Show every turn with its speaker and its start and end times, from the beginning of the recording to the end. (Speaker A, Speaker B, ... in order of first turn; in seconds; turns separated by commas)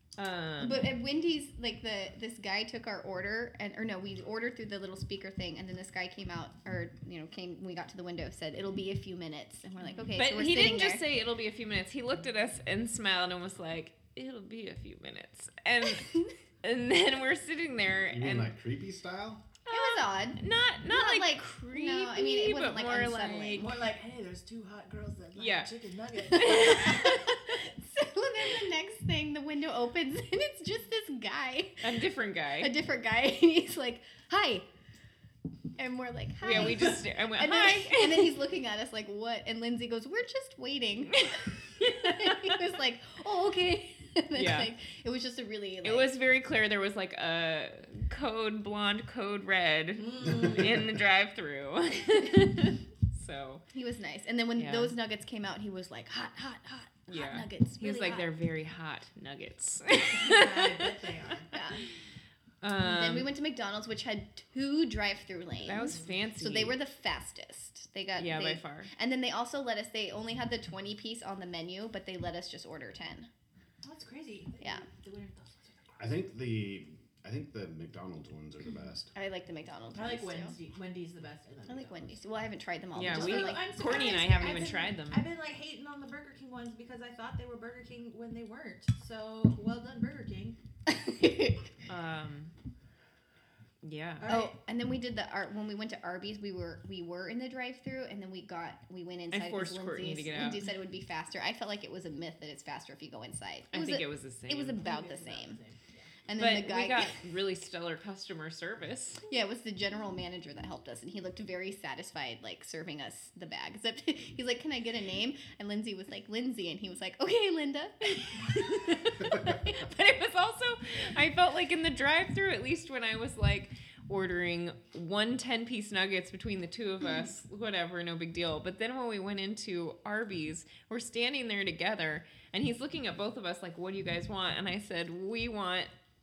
Speaker A: 0.2-0.9, Speaker B: 0.6-11.1, Speaker A: 10.1-18.5, Speaker C: 18.1-19.4, Speaker A: 19.6-23.6, Speaker B: 19.7-23.7, Speaker D: 23.5-27.2, Speaker A: 25.4-25.7, Speaker A: 26.4-26.9, Speaker B: 26.7-31.9, Speaker A: 31.8-32.8, Speaker B: 32.6-34.7, Speaker B: 35.8-46.1, Speaker A: 36.4-38.4, Speaker A: 41.8-42.5, Speaker A: 44.3-44.7, Speaker A: 45.8-53.6, Speaker D: 50.0-50.5, Speaker B: 53.7-58.3, Speaker A: 54.6-55.0, Speaker A: 57.1-60.8, Speaker D: 60.1-61.5, Speaker B: 61.5-61.8, Speaker A: 62.6-63.3, Speaker B: 62.7-73.3, Speaker A: 65.6-66.8, Speaker A: 68.2-68.9, Speaker D: 73.8-76.2, Speaker C: 76.0-79.1, Speaker B: 79.1-80.5, Speaker D: 79.9-82.1, Speaker B: 81.7-84.8, Speaker A: 82.9-85.3, Speaker D: 83.0-90.5, Speaker B: 90.9-91.7, Speaker A: 91.9-92.5, Speaker A: 93.8-94.4, Speaker D: 94.2-94.6, Speaker B: 94.2-105.6, Speaker A: 99.3-100.7, Speaker A: 103.7-104.8, Speaker D: 104.8-106.1, Speaker B: 106.2-107.2, Speaker A: 106.3-109.2, Speaker B: 109.3-119.8, Speaker A: 119.7-135.9